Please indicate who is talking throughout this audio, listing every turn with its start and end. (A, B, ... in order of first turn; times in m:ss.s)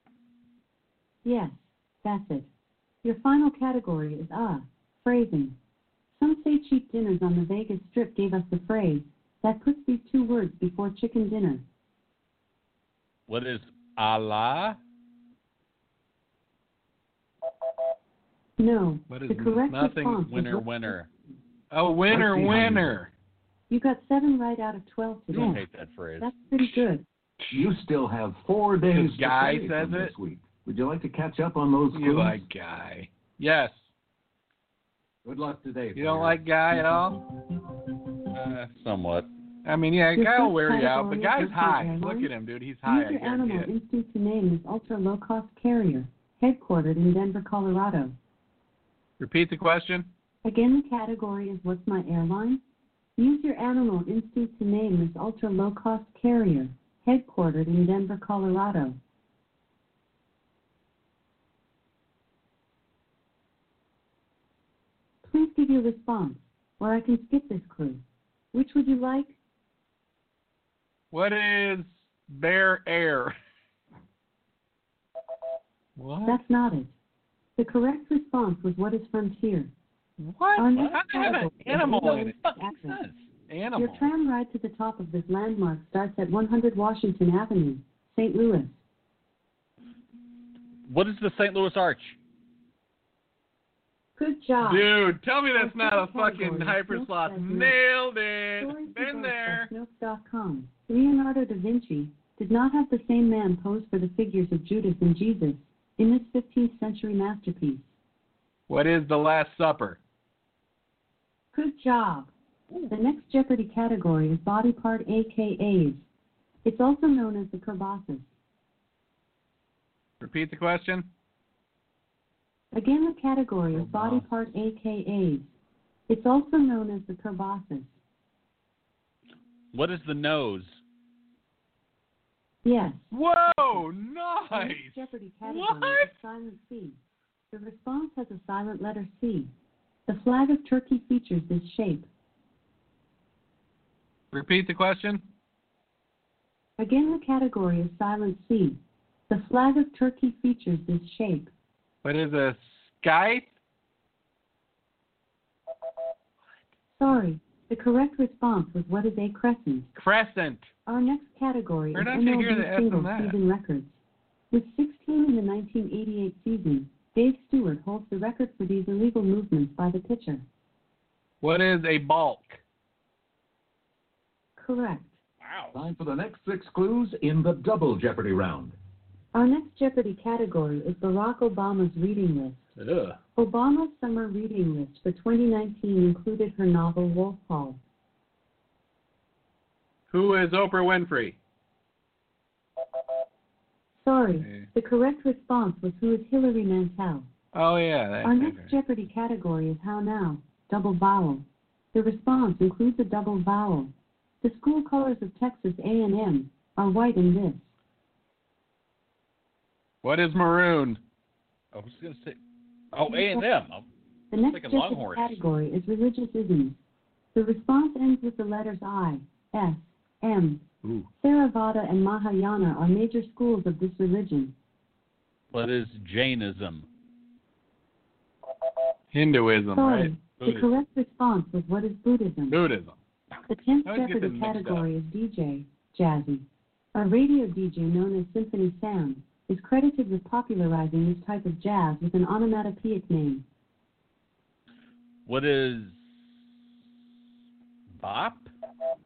0:01.2-0:02.5 A
0:03.0-0:05.6 A
0:06.1-0:11.6 A
0:13.3-0:14.8 B
0:18.6-0:20.9 A
0:19.1-0:20.3 C
0:20.2-0:21.1 B
0:21.7-0:23.1 C
0:22.1-0:22.8 D
0:22.4-0:22.8 B
0:23.7-0:25.6 A
0:25.3-0:26.3 B
0:25.3-0:25.6 C
0:26.2-0:27.0 A
0:27.5-0:32.4 D
0:28.9-0:30.1 C
0:31.9-0:33.9 C
0:35.2-0:36.4 D
0:35.9-0:37.2 C
0:38.3-0:39.3 B
0:39.6-0:43.7 C
0:40.1-0:42.3 A
0:42.8-0:48.1 A
0:49.2-0:50.1 C
0:50.4-0:52.6 A
0:53.2-0:59.0 A
1:05.2-1:09.4 A
1:11.1-1:13.3 C
1:16.0-1:16.4 C
1:16.2-1:16.9 A
1:17.6-1:19.7 A
1:20.2-1:22.4 C
1:20.6-1:23.0 A
1:20.7-1:23.3 B
1:23.5-1:24.1 C
1:23.7-1:28.8 A
1:30.9-1:32.2 B
1:34.2-1:35.0 A
1:34.6-1:39.7 C
1:35.5-1:37.8 A
1:38.5-1:47.9 A
1:48.7-1:50.0 C
1:51.5-1:52.3 A
1:52.9-1:56.0 A
1:56.6-1:58.3 A
2:00.2-2:01.1 C
2:02.7-2:05.5 A
2:03.7-2:04.3 C
2:06.1-2:08.0 A
2:09.7-2:10.8 B
2:12.6-2:13.1 A
2:13.1-2:16.1 C
2:14.5-2:17.0 A
2:17.5-2:19.5 A
2:20.1-2:22.1 A
2:24.3-2:25.2 C
2:26.8-2:31.5 A
2:32.0-2:33.5 C
2:36.9-2:39.9 A
2:39.9-2:40.7 C
2:40.8-2:44.0 A
2:41.9-2:43.4 C
2:44.5-2:50.4 A
2:51.4-2:52.6 C
2:54.6-2:55.2 A
2:55.4-2:55.7 B
2:55.7-2:58.8 D
2:59.3-3:02.7 A
3:02.8-3:03.2 C
3:03.4-3:07.8 A
3:10.1-3:11.4 C
3:13.9-3:17.3 A
3:14.4-3:14.7 C
3:17.5-3:18.7 C
3:18.2-3:27.7 A
3:30.0-3:31.0 C
3:31.7-3:32.4 B
3:32.9-3:33.9 B
3:33.0-3:33.5 A
3:34.3-3:36.8 A
3:34.4-3:35.4 B
3:37.3-3:40.6 A
3:40.8-3:41.1 C
3:41.2-3:44.5 A
3:45.5-3:46.9 B
3:49.1-3:50.1 C
3:49.7-3:52.6 A
3:50.4-3:50.7 B
3:52.5-3:53.0 C
3:53.5-4:03.4 A
3:53.8-3:54.9 C
4:05.2-4:06.0 B
4:08.0-4:08.5 B